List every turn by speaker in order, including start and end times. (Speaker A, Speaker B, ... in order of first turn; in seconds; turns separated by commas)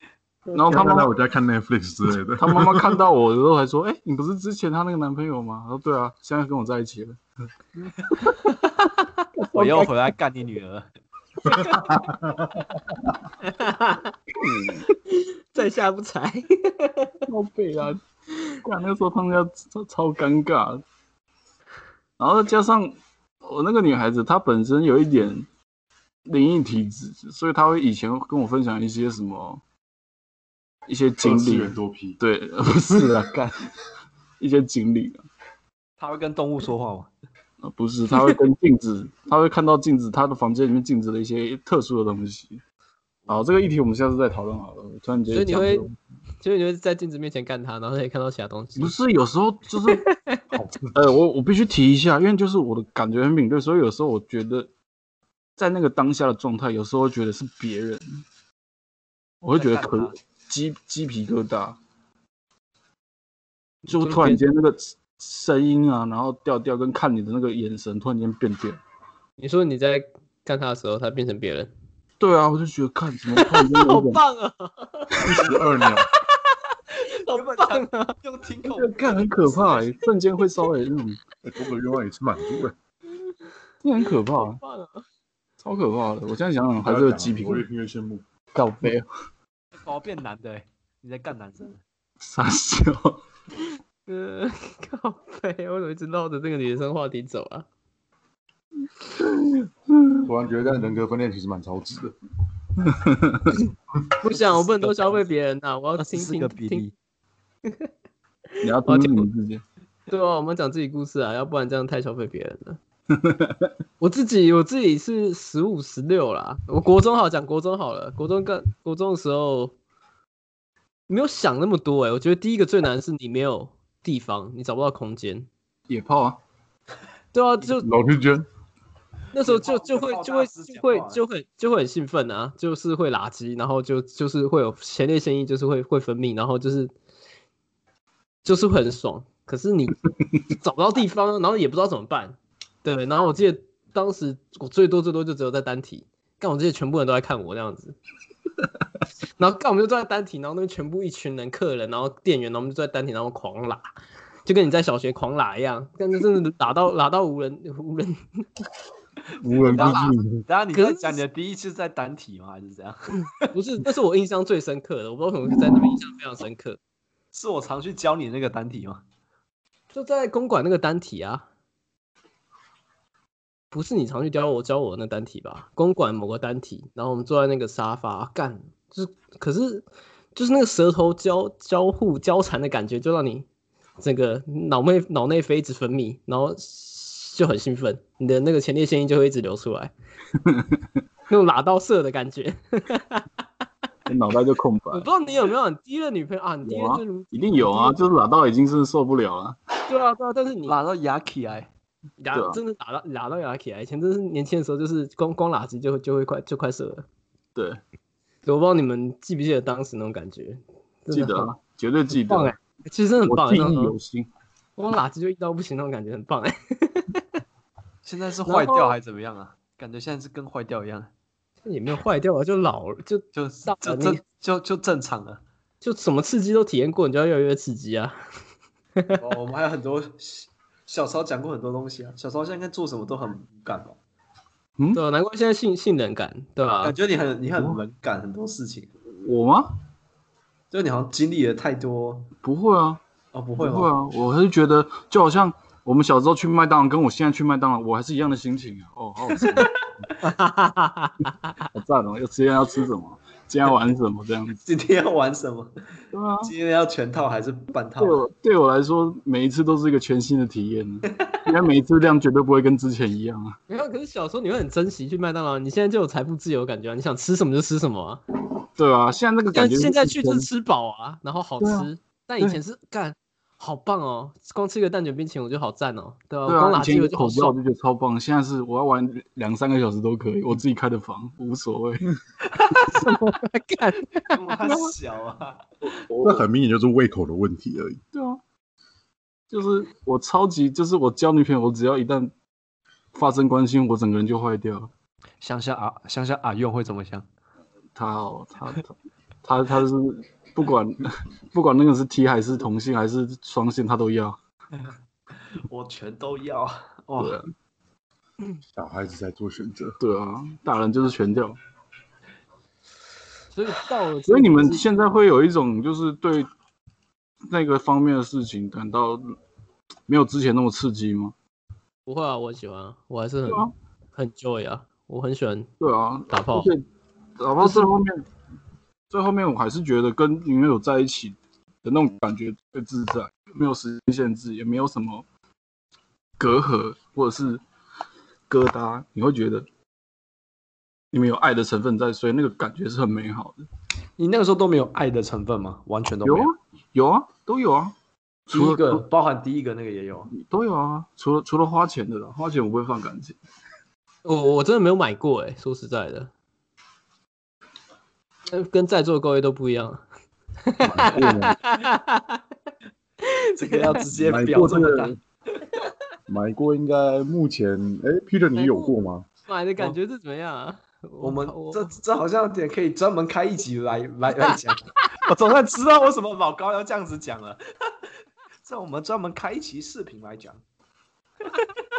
Speaker A: 0.5-1.1, Speaker B: 0.6-3.0, Speaker A: 2.4-7.2, Speaker C: 8.2-9.8, Speaker A: 9.4-9.9, Speaker D: 9.5-10.9, Speaker C: 11.4-11.8, Speaker B: 11.5-12.8, Speaker C: 13.4-14.1, Speaker A: 14.4-14.9, Speaker C: 15.1-17.2, Speaker A: 17.3-18.0, Speaker A: 18.6-20.8, Speaker A: 22.2-25.5, Speaker A: 26.2-29.6, Speaker A: 30.9-33.5, Speaker B: 31.2-32.2, Speaker A: 34.4-35.2, Speaker D: 36.0-37.1, Speaker A: 37.6-42.6, Speaker A: 43.3-45.9, Speaker C: 45.3-45.8, Speaker C: 46.4-48.9, Speaker A: 48.8-50.0, Speaker C: 49.8-50.4, Speaker B: 50.5-51.0, Speaker A: 50.9-54.7, Speaker A: 55.6-58.2, Speaker A: 59.4-61.8, Speaker D: 59.5-60.1, Speaker C: 63.9-64.4, Speaker A: 63.9-68.8, Speaker C: 69.4-71.7, Speaker A: 72.2-74.2, Speaker C: 73.3-75.6, Speaker B: 75.2-76.1, Speaker C: 77.0-78.2, Speaker D: 77.0-80.0, Speaker A: 78.6-81.2, Speaker B: 81.4-82.7, Speaker A: 83.8-84.6, Speaker C: 84.3-85.0, Speaker A: 85.6-87.6, Speaker B: 86.8-88.2, Speaker A: 88.5-89.1, Speaker D: 89.8-91.8, Speaker A: 92.2-93.2, Speaker C: 94.1-97.7, Speaker A: 99.1-100.3, Speaker B: 100.2-102.1, Speaker A: 102.9-103.5, Speaker C: 104.2-106.8, Speaker D: 104.3-105.2, Speaker D: 106.0-106.9, Speaker C: 108.5-109.3, Speaker A: 108.6-109.6, Speaker C: 110.1-112.8, Speaker A: 113.1-113.7, Speaker C: 114.0-119.7, Speaker C: 121.1-125.5, Speaker A: 125.9-126.4, Speaker C: 127.3-127.9, Speaker B: 127.8-128.4, Speaker C: 129.3-136.9, Speaker D: 129.4-131.2, Speaker C: 138.4-148.0, Speaker C: 149.4-153.9, Speaker C: 154.4-158.4, Speaker B: 159.4-160.4, Speaker C: 159.7-160.2, Speaker D: 159.7-163.4, Speaker C: 160.7-161.2, Speaker C: 163.3-166.8, Speaker D: 167.3-169.0, Speaker C: 169.9-171.4, Speaker C: 173.7-183.4, Speaker C: 184.0-189.9, Speaker A: 190.4-190.8, Speaker C: 191.3-193.3, Speaker A: 194.1-195.1, Speaker C: 194.9-198.0, Speaker A: 196.6-199.6, Speaker C: 199.9-200.7, Speaker D: 200.7-201.7, Speaker C: 202.2-207.0, Speaker A: 202.3-202.6, Speaker A: 207.5-207.8, Speaker C: 208.4-211.5, Speaker A: 211.1-212.5, Speaker C: 212.1-213.9, Speaker A: 213.2-214.3, Speaker C: 214.8-217.2, Speaker D: 218.0-221.1, Speaker C: 218.4-218.9, Speaker C: 221.6-224.2, Speaker D: 223.3-225.4, Speaker C: 225.8-228.2, Speaker C: 229.0-229.2, Speaker D: 229.2-234.0, Speaker C: 234.9-236.9, Speaker D: 236.8-238.9, Speaker A: 237.5-237.8, Speaker A: 239.1-239.8, Speaker D: 240.7-242.3, Speaker A: 242.4-243.0, Speaker D: 243.3-243.9, Speaker A: 243.6-249.7, Speaker C: 250.2-251.6, Speaker A: 251.7-254.6, Speaker D: 254.6-255.7, Speaker A: 256.1-256.5, Speaker D: 256.4-258.2, Speaker A: 258.0-263.6, Speaker C: 263.7-268.2, Speaker A: 268.8-270.5, Speaker C: 269.5-277.6, Speaker A: 271.6-271.9, Speaker A: 276.5-282.1, Speaker C: 282.8-284.5, Speaker D: 284.3-285.6, Speaker A: 284.6-284.9, Speaker A: 285.9-286.4, Speaker B: 286.2-288.0, Speaker A: 288.1-288.4, Speaker A: 289.5-292.3, Speaker A: 293.1-294.9, Speaker D: 295.4-297.3, Speaker A: 297.9-304.4, Speaker D: 305.5-307.4, Speaker A: 307.2-307.5, Speaker B: 308.7-310.0, Speaker A: 310.0-311.6, Speaker C: 313.5-314.8, Speaker A: 314.3-316.5, Speaker A: 317.5-319.3, Speaker A: 320.1-321.3, Speaker C: 322.1-325.7, Speaker A: 323.5-323.7, Speaker A: 325.8-326.8, Speaker C: 326.3-326.7, Speaker A: 327.4-328.2, Speaker C: 327.6-327.9, Speaker A: 329.1-335.2, Speaker A: 336.4-337.6, Speaker A: 338.5-339.7, Speaker A: 341.1-343.7, Speaker D: 344.2-346.5, Speaker A: 346.2-347.9, Speaker A: 348.5-349.0, Speaker D: 348.5-350.3, Speaker A: 350.3-353.4, Speaker C: 354.2-356.3, Speaker C: 358.5-360.0, Speaker C: 360.6-362.4, Speaker B: 360.8-361.6, Speaker C: 363.2-364.0, Speaker D: 363.6-365.2, Speaker B: 364.1-365.2, Speaker B: 366.3-369.3, Speaker C: 368.5-368.9, Speaker C: 369.5-371.9, Speaker D: 371.2-377.6, Speaker D: 378.6-380.6